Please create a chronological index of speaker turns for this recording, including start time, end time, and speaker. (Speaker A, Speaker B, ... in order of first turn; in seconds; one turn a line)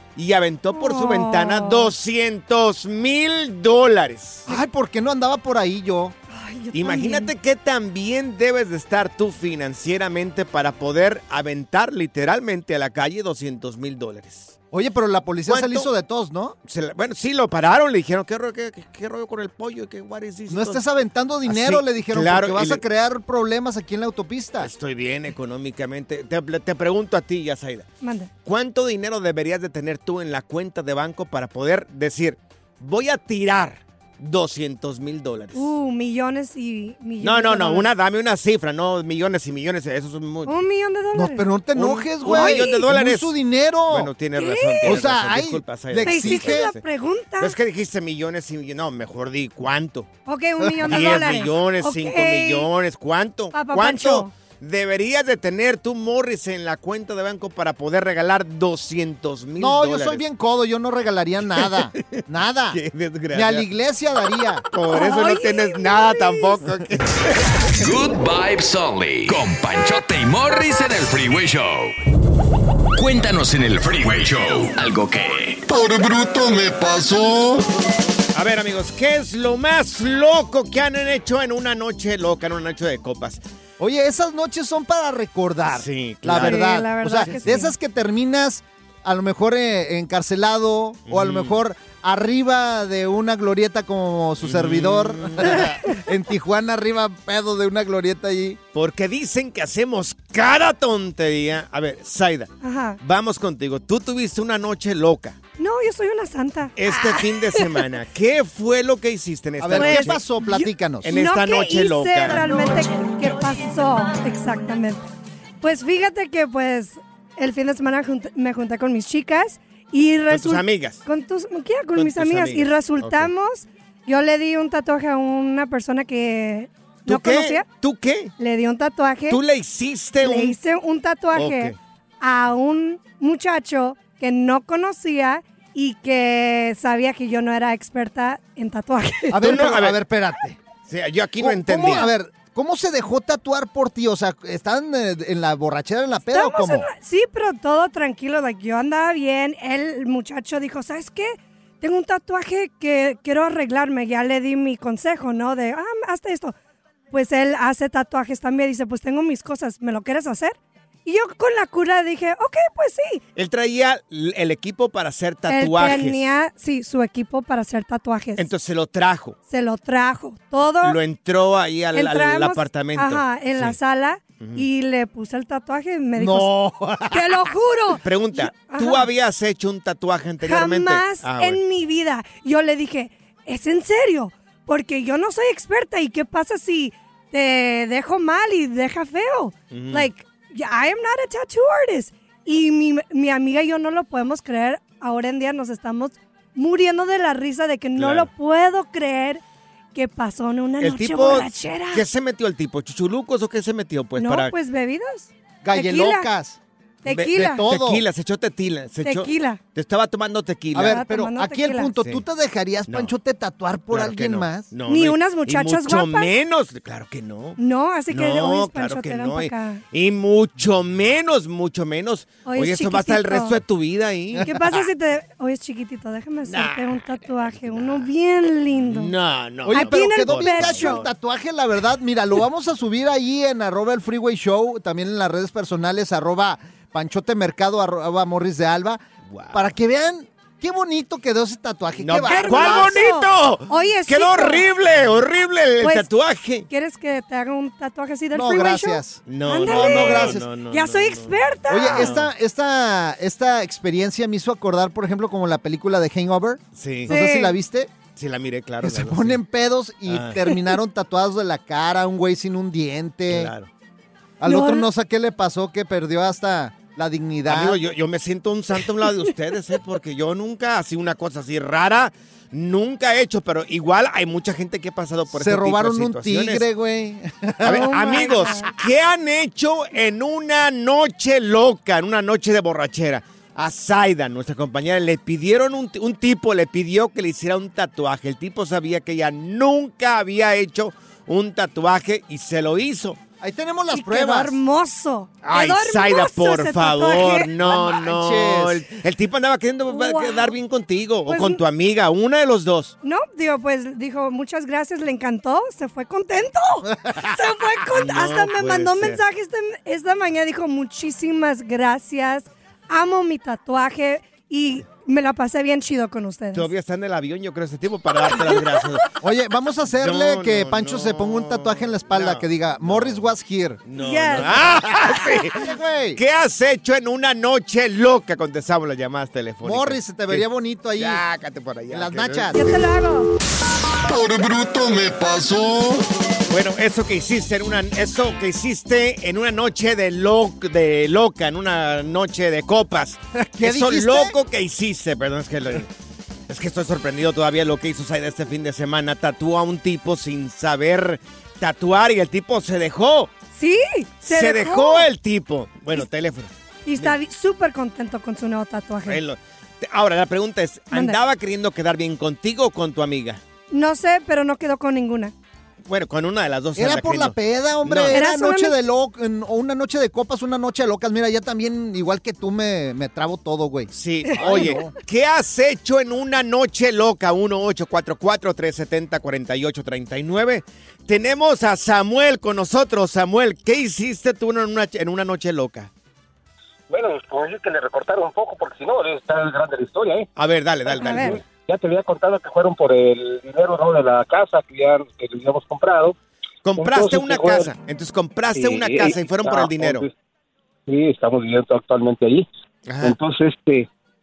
Speaker A: 0.2-4.5
Speaker B: 0.7-1.9
Speaker C: 4.5-6.2
Speaker B: 6.3-7.3
Speaker A: 6.7-14.6
Speaker C: 14.7-16.6
Speaker A: 15.5-15.9
Speaker A: 16.7-20.8
Speaker C: 20.5-24.7
Speaker A: 21.5-22.8
Speaker A: 24.6-27.9
Speaker B: 28.0-28.3
Speaker A: 28.4-35.8
Speaker B: 35.5-37.9
Speaker A: 37.2-40.6
Speaker B: 40.5-41.6
Speaker C: 41.1-44.1
Speaker A: 41.8-43.3
Speaker B: 42.2-42.9
Speaker A: 43.9-46.9
Speaker B: 44.4-45.0
Speaker C: 44.8-46.7
Speaker B: 46.0-47.5
Speaker A: 47.4-50.1
Speaker B: 50.3-52.7
Speaker C: 50.6-51.4
Speaker A: 50.8-60.2
Speaker B: 53.5-54.3
Speaker C: 59.6-62.8
Speaker A: 61.6-62.2
Speaker A: 62.7-63.7
Speaker C: 63.3-64.7
Speaker A: 64.7-67.8
Speaker B: 64.9-66.6
Speaker D: 67.7-72.0
Speaker D: 72.9-75.6
Speaker E: 75.7-77.7
Speaker A: 78.3-83.4
Speaker C: 83.8-98.6
Speaker A: 85.7-87.6
Speaker B: 86.3-87.7
Speaker A: 91.1-91.6
Speaker A: 94.4-95.9
Speaker A: 98.7-105.4
Speaker B: 102.6-103.0
Speaker B: 105.6-107.9
Speaker A: 106.8-110.2
Speaker C: 109.6-111.1
Speaker B: 109.7-115.0
Speaker A: 111.0-112.8
Speaker B: 115.6-127.7
Speaker A: 120.3-121.0
Speaker A: 122.0-123.3
Speaker A: 127.1-128.3
Speaker B: 128.4-129.4
Speaker A: 129.3-130.6
Speaker B: 130.2-139.7
Speaker A: 131.3-131.8
Speaker C: 139.3-140.6
Speaker A: 139.3-140.0
Speaker A: 140.9-142.1
Speaker C: 141.4-146.9
Speaker B: 146.3-156.6
Speaker B: 157.1-163.2
Speaker A: 163.3-166.3
Speaker B: 165.5-168.5
Speaker A: 168.4-169.4
Speaker B: 169.5-171.0
Speaker A: 170.8-173.8
Speaker B: 171.9-179.1
Speaker A: 174.4-174.7
Speaker C: 176.2-177.4
Speaker A: 178.0-181.6
Speaker B: 180.4-199.4
Speaker A: 189.7-190.1
Speaker A: 198.0-198.3
Speaker B: 199.9-202.1
Speaker A: 200.8-204.5
Speaker B: 204.2-206.3
Speaker C: 205.6-206.6
Speaker B: 207.0-207.7
Speaker A: 207.1-211.1
Speaker C: 207.3-208.0
Speaker B: 209.0-209.6
Speaker C: 210.7-214.7
Speaker B: 210.8-211.9
Speaker A: 212.9-213.1
Speaker A: 213.9-217.6
Speaker B: 214.8-216.3
Speaker B: 217.6-219.8
Speaker A: 218.1-224.9
Speaker B: 222.4-223.6
Speaker B: 224.4-229.1
Speaker A: 226.5-228.1
Speaker A: 228.7-231.1
Speaker C: 229.7-239.0
Speaker B: 229.7-231.0
Speaker A: 239.3-239.7
Speaker C: 239.5-243.1
Speaker A: 242.0-246.7
Speaker B: 242.2-244.7
Speaker B: 245.8-246.1
Speaker B: 246.7-252.1
Speaker C: 248.3-250.5
Speaker A: 249.3-252.3
Speaker C: 251.7-257.9
Speaker A: 256.8-257.1
Speaker B: 257.1-257.6
Speaker A: 258.1-259.4
Speaker C: 258.8-263.5
Speaker A: 260.1-260.5
Speaker A: 263.3-263.7
Speaker C: 264.4-267.8
Speaker B: 264.5-264.9
Speaker A: 267.5-276.6
Speaker C: 275.3-278.6
Speaker A: 277.6-293.2
Speaker B: 277.7-278.7
Speaker C: 293.4-294.6
Speaker B: 293.9-297.5
Speaker A: 295.4-302.9
Speaker C: 297.6-298.8
Speaker B: 299.9-300.6
Speaker B: 301.3-301.6
Speaker B: 303.0-316.7
Speaker A: 307.9-309.2
Speaker A: 316.5-319.1
Speaker B: 318.2-318.8
Speaker C: 319.2-323.8
Speaker A: 319.9-323.3
Speaker A: 323.9-332.9
Speaker B: 323.9-324.6
Speaker C: 325.1-326.2
Speaker C: 329.6-331.2
Speaker C: 331.9-332.8
Speaker B: 332.5-333.3
Speaker E: 334.1-336.1
Speaker A: 336.5-345.9
Speaker C: 343.4-344.4
Speaker A: 346.5-353.3
Speaker B: 353.6-355.1
Speaker A: 354.2-357.2
Speaker B: 356.9-359.2
Speaker A: 359.1-363.4
Speaker B: 360.9-361.2
Speaker B: 363.7-365.3
Speaker A: 365.9-368.2
Speaker C: 366.8-374.9
Speaker B: 368.1-368.8
Speaker A: 373.9-385.9
Speaker B: 374.4-374.9
Speaker F: 386.9-390.3
Speaker A: 390.4-391.4
Speaker B: 390.9-391.4
Speaker F: 391.1-396.2
Speaker A: 396.6-400.1
Speaker F: 396.8-397.7
Speaker F: 398.5-400.1
Speaker F: 400.9-402.5
Speaker A: 402.9-403.2
Speaker F: 403.0-403.9